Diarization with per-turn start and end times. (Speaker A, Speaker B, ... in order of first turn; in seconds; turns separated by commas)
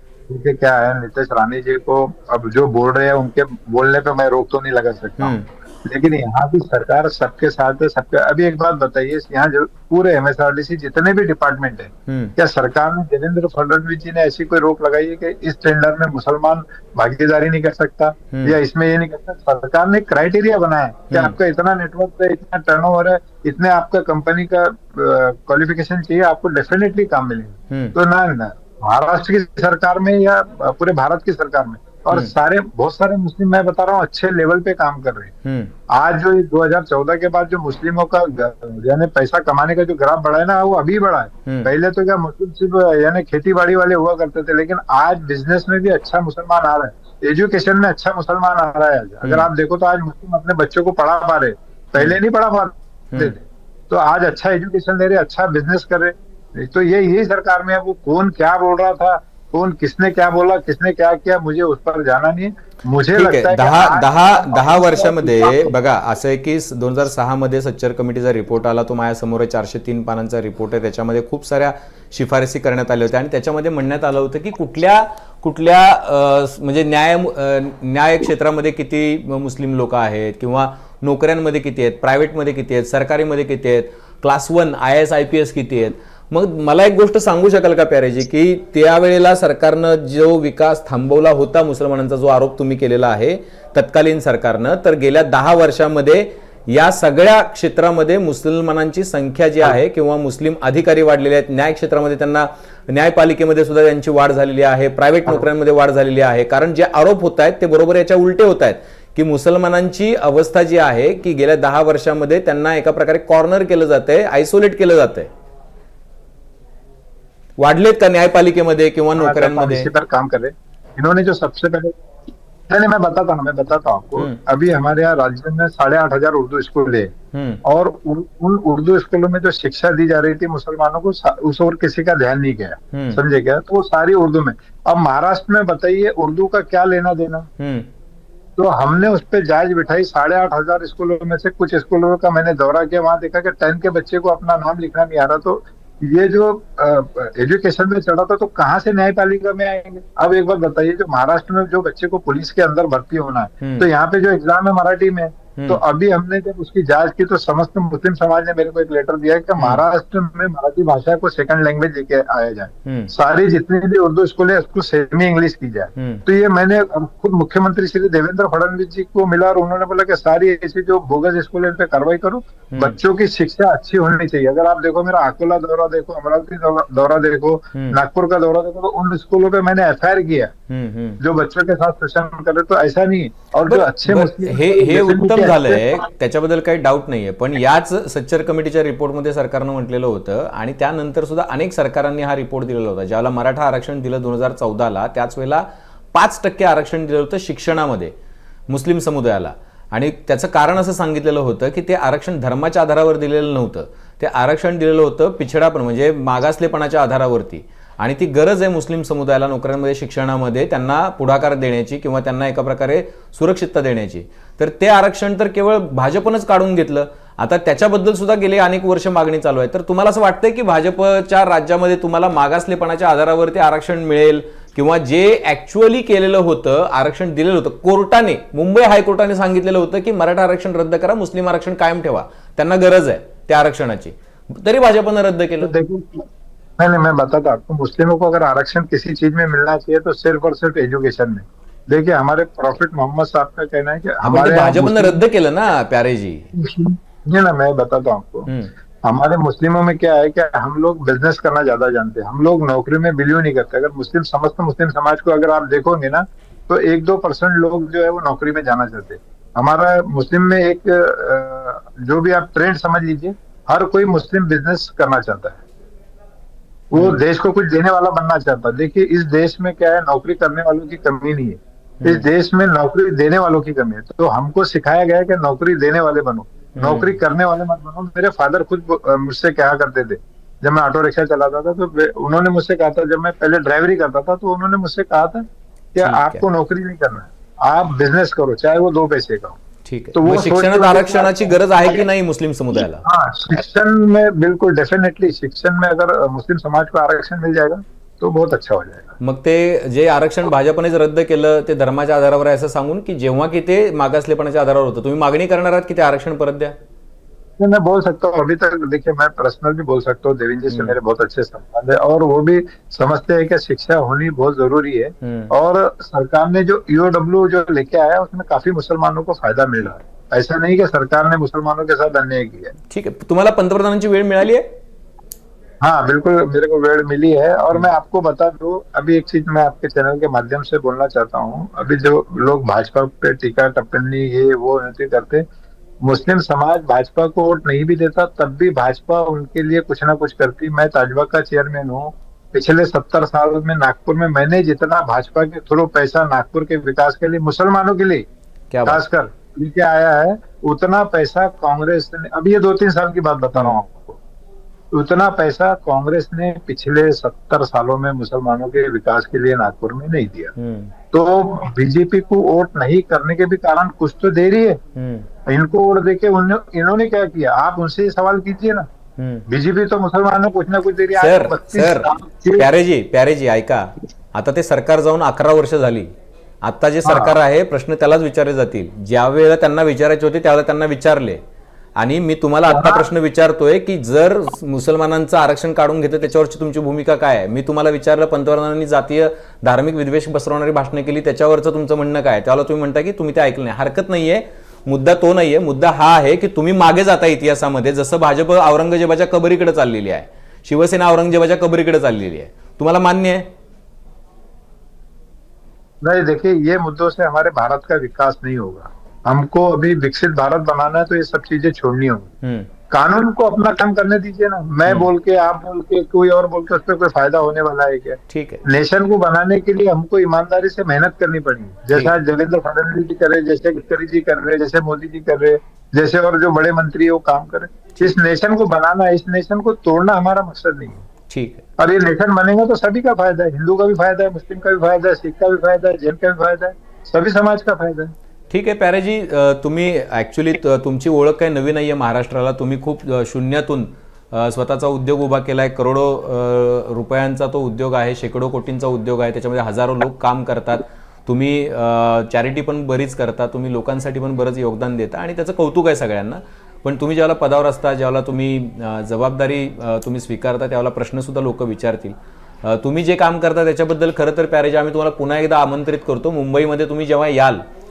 Speaker A: 0.3-35.3, Speaker B: 5.2-5.5, Speaker B: 12.1-12.3, Speaker B: 18.3-18.6, Speaker B: 21.1-21.4, Speaker B: 27.7-27.9, Speaker B: 35.4-35.7, Speaker A: 35.9-65.7, Speaker B: 41.5-41.7, Speaker B: 49.2-49.5, Speaker B: 63.1-115.3, Speaker B: 117.6-119.9, Speaker A: 119.2-122.0, Speaker A: 122.7-127.1, Speaker B: 127.3-127.6, Speaker A: 127.6-137.5, Speaker B: 132.9-133.2, Speaker B: 137.6-137.9, Speaker A: 138.6-180.5, Speaker B: 153.6-153.9, Speaker B: 155.6-155.8, Speaker B: 159.6-159.8, Speaker B: 162.8-163.1, Speaker B: 165.9-166.2, Speaker B: 172.7-173.0, Speaker B: 177.7-178.0, Speaker B: 180.7-181.2, Speaker A: 181.2-186.1, Speaker B: 183.6-198.1, Speaker B: 198.7-235.7, Speaker A: 235.6-245.2, Speaker B: 244.2-246.5, Speaker A: 246.5-248.5, Speaker B: 248.5-248.7, Speaker A: 249.0-265.6, Speaker A: 266.9-289.6, Speaker B: 272.0-272.3, Speaker B: 276.8-277.2, Speaker B: 286.0-286.4, Speaker B: 289.8-293.0, Speaker A: 290.1-292.0, Speaker A: 293.0-299.1, Speaker B: 299.2-306.8, Speaker A: 307.6-322.7, Speaker B: 310.7-311.0, Speaker B: 315.2-315.5, Speaker B: 322.9-324.6, Speaker A: 325.8-335.4, Speaker A: 336.0-348.2, Speaker B: 348.7-349.0, Speaker A: 348.9-354.2, Speaker A: 354.9-360.5, Speaker B: 360.6-360.9, Speaker A: 361.1-364.8, Speaker B: 364.9-365.3, Speaker A: 365.5-368.9, Speaker B: 369.2-369.4, Speaker A: 369.5-372.6, Speaker B: 371.2-376.1, Speaker B: 376.6-381.4, Speaker A: 377.0-377.3, Speaker B: 382.0-403.5, Speaker A: 382.7-383.1, Speaker A: 406.0-412.3, Speaker B: 412.4-412.7, Speaker A: 412.9-431.0, Speaker B: 418.3-418.6, Speaker B: 431.3-431.6, Speaker A: 431.8-438.1, Speaker B: 438.5-467.6